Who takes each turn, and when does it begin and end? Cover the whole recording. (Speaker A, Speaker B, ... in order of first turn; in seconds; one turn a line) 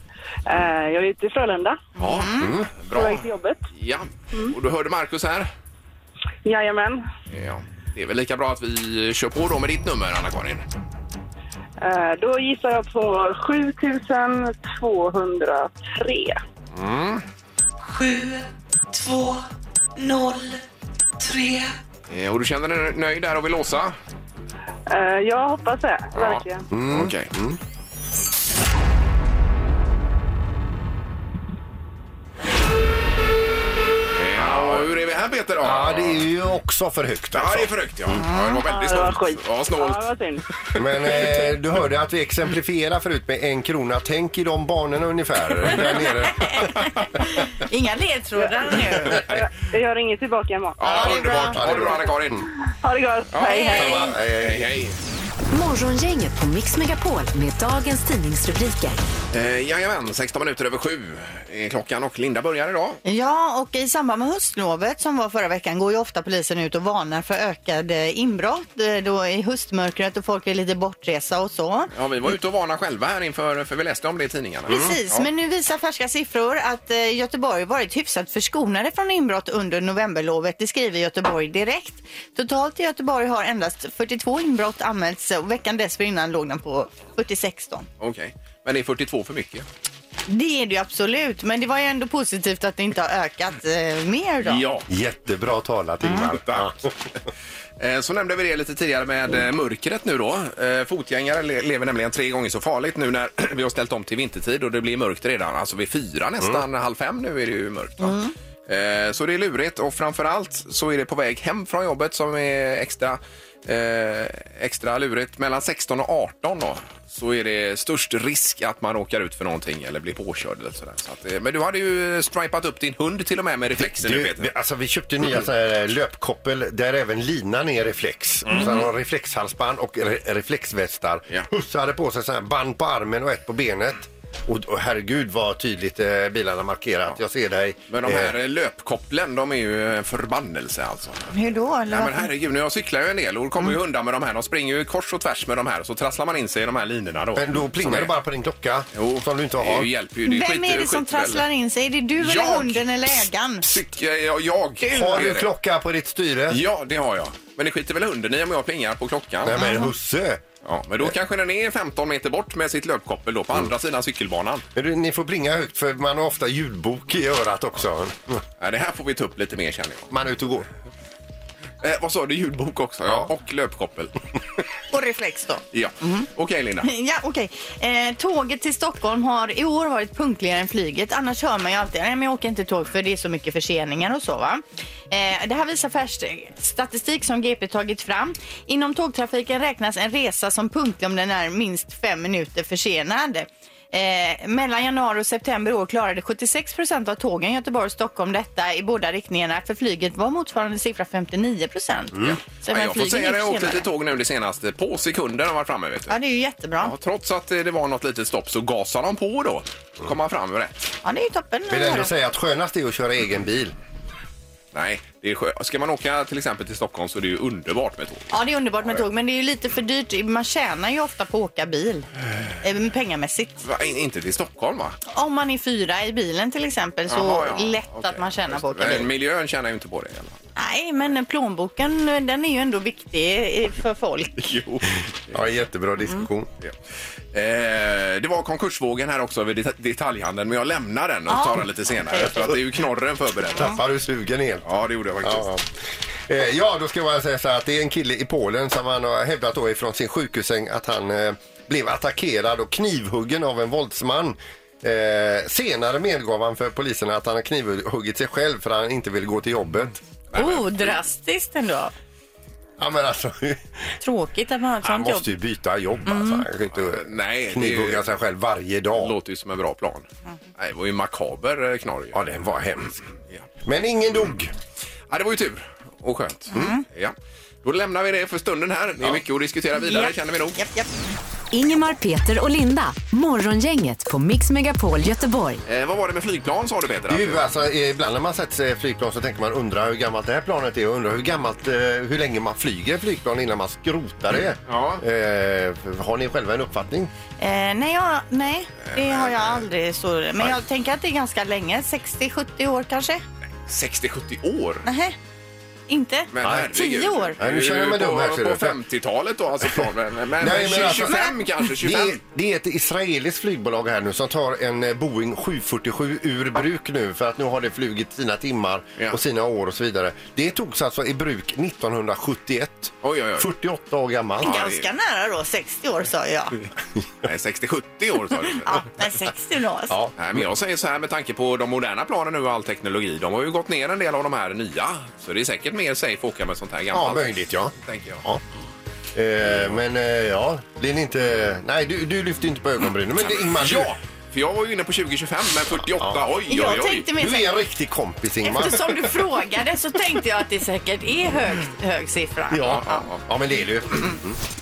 Speaker A: 0.5-1.8
Speaker B: 2.0-2.5
Speaker C: 2.0-5.5
Speaker D: 2.4-2.7
Speaker A: 2.9-3.6
Speaker A: 6.4-7.0
Speaker C: 7.3-10.6
Speaker A: 11.8-16.4
Speaker C: 16.7-17.2
Speaker E: 17.8-19.4
Speaker E: 20.0-20.6
Speaker E: 21.2-21.7
Speaker C: 22.1-23.9
Speaker A: 24.9-26.6
Speaker C: 26.1-27.3
Speaker D: 26.7-27.6
Speaker C: 34.1-36.2
Speaker D: 34.4-34.9
Speaker D: 35.6-37.7
Speaker C: 37.3-40.1
Speaker B: 38.2-38.6
Speaker A: 38.6-40.4
Speaker C: 40.7-41.3
Speaker D: 40.8-46.7
Speaker B: 46.4-49.2
Speaker A: 48.4-50.8
Speaker C: 50.8-52.5
Speaker D: 50.9-52.5
Speaker B: 50.9-51.5
Speaker A: 52.7-54.1
Speaker C: 53.3-55.0
Speaker B: 53.5-54.0
Speaker D: 53.7-54.6
Speaker F: 55.5-59.0
Speaker C: 59.3-63.0
Speaker B: 63.0-71.9
Speaker C: 71.9-75.3
Speaker B: 74.7-87.9
Speaker C: 88.0-89.7
Speaker B: 90.3-94.6
Speaker C: 94.4-94.8
Speaker D: 94.9-96.8
Speaker C: 96.3-96.7
Speaker C: 97.8-124.5
Speaker B: 108.0-108.3
Speaker D: 123.8-138.3
Speaker C: 128.5-128.9
Speaker C: 137.9-141.3
Speaker B: 141.3-142.3
Speaker C: 141.9-148.1
Speaker D: 147.3-149.9
Speaker C: 148.9-151.4
Speaker B: 150.2-153.7
Speaker C: 152.2-155.5
Speaker D: 154.8-156.6
Speaker C: 156.5-159.6
Speaker D: 159.4-160.4
Speaker B: 159.6-159.9
Speaker C: 160.6-164.6
Speaker D: 164.7-168.4
Speaker C: 168.6-170.1
Speaker D: 170.1-170.7
Speaker C: 171.8-174.1
Speaker B: 174.9-176.3
Speaker C: 175.7-176.9
Speaker B: 176.8-203.9
Speaker D: 202.1-202.4
Speaker C: 202.7-206.1
Speaker B: 206.1-206.9
Speaker C: 206.8-210.9
Speaker B: 211.0-212.1
Speaker D: 211.7-213.7
Speaker C: 214.7-218.3
Speaker B: 218.3-222.1
Speaker B: 222.6-223.6
Speaker C: 223.6-225.0
Speaker B: 225.1-229.1
Speaker C: 227.1-230.4
Speaker B: 230.6-234.5
Speaker C: 234.4-235.0
Speaker D: 235.3-236.5
Speaker C: 237.3-243.8
Speaker B: 241.3-242.5
Speaker D: 243.5-244.7
Speaker C: 244.6-245.5
Speaker D: 245.2-245.7
Speaker D: 246.3-260.0
Speaker C: 260.3-260.9
Speaker B: 260.3-261.9
Speaker D: 262.8-263.9
Speaker B: 264.0-265.3
Speaker D: 264.8-269.1
Speaker B: 266.1-266.4
Speaker C: 266.8-268.0
Speaker C: 268.9-270.1
Speaker C: 270.6-272.2
Speaker D: 272.1-273.0
Speaker D: 273.6-274.5
Speaker C: 275.1-280.6
Speaker B: 276.5-276.8
Speaker B: 279.8-280.9
Speaker F: 281.5-285.6
Speaker C: 285.6-287.4
Speaker D: 287.1-297.1
Speaker C: 294.7-295.0
Speaker B: 297.4-303.2
Speaker C: 298.9-299.6
Speaker C: 303.6-304.8
Speaker B: 304.8-305.1
Speaker B: 305.9-307.4
Speaker C: 306.3-312.2
Speaker D: 306.4-306.7
Speaker D: 307.4-308.8
Speaker D: 310.4-324.6
Speaker C: 323.0-323.5
Speaker B: 324.4-326.6
Speaker C: 324.4-324.8
Speaker C: 327.2-328.9
Speaker B: 328.6-329.9
Speaker D: 329.9-330.1
Speaker C: 330.2-338.2
Speaker D: 336.9-338.4
Speaker D: 339.1-343.9
Speaker C: 343.2-347.1
Speaker B: 346.5-347.6
Speaker D: 347.1-349.0
Speaker B: 348.4-353.0
Speaker D: 352.5-354.4
Speaker C: 352.6-353.2